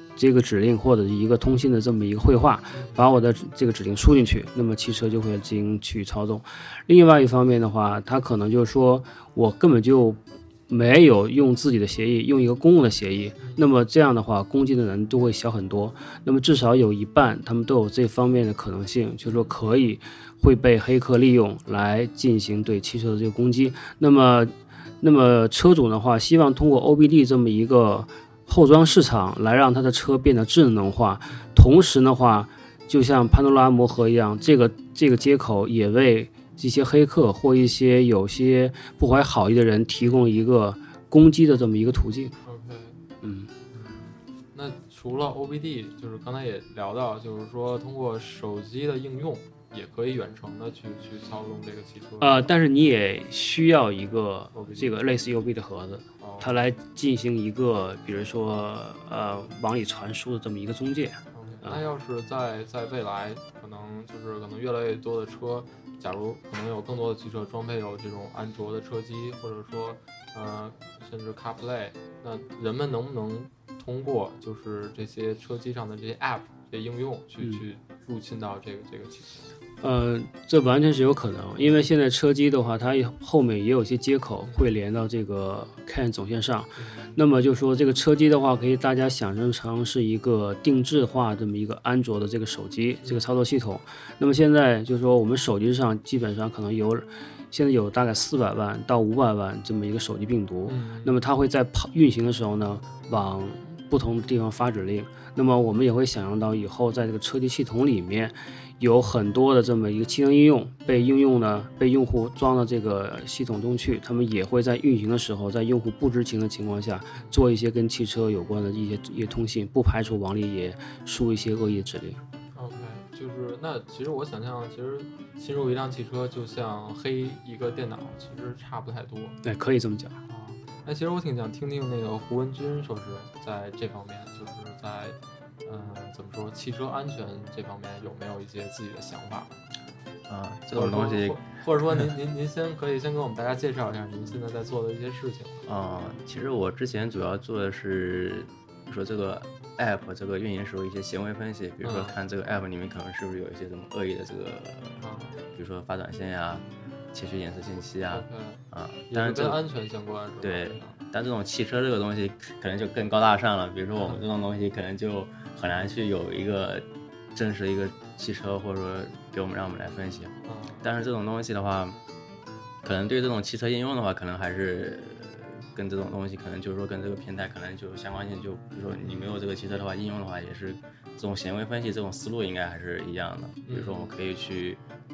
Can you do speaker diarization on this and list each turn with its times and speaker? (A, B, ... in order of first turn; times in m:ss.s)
0:00.2-0:42.4 A
0:02.7-0:03.0 B
0:13.4-0:13.7 B
0:19.2-0:19.5 B
0:40.0-0:40.2 B
0:42.4-0:43.0 B
0:43.2-0:43.5 A
0:43.7-0:52.5 B
0:52.2-1:01.8 A
0:54.5-0:55.0 B
0:56.2-0:56.6 B
1:01.3-1:19.4 B
1:19.8-2:02.2 A
1:26.8-1:27.2 B
1:33.0-1:33.3 B
1:40.7-1:41.2 B
1:50.8-1:51.1 B
1:57.1-1:57.4 B
2:02.5-2:09.4 B
2:09.4-2:10.2 A
2:10.2-2:19.6 B
2:20.3-2:21.4 C
2:20.7-2:25.6 B
2:25.7-2:39.6 C
2:31.8-2:32.2 B
2:35.0-2:35.4 B
2:38.1-2:41.0 B
2:40.4-2:52.0 C
2:44.0-2:44.2 B
2:50.5-2:50.8 B
2:52.8-3:04.8 C
2:59.0-2:59.3 B
3:03.7-3:04.1 B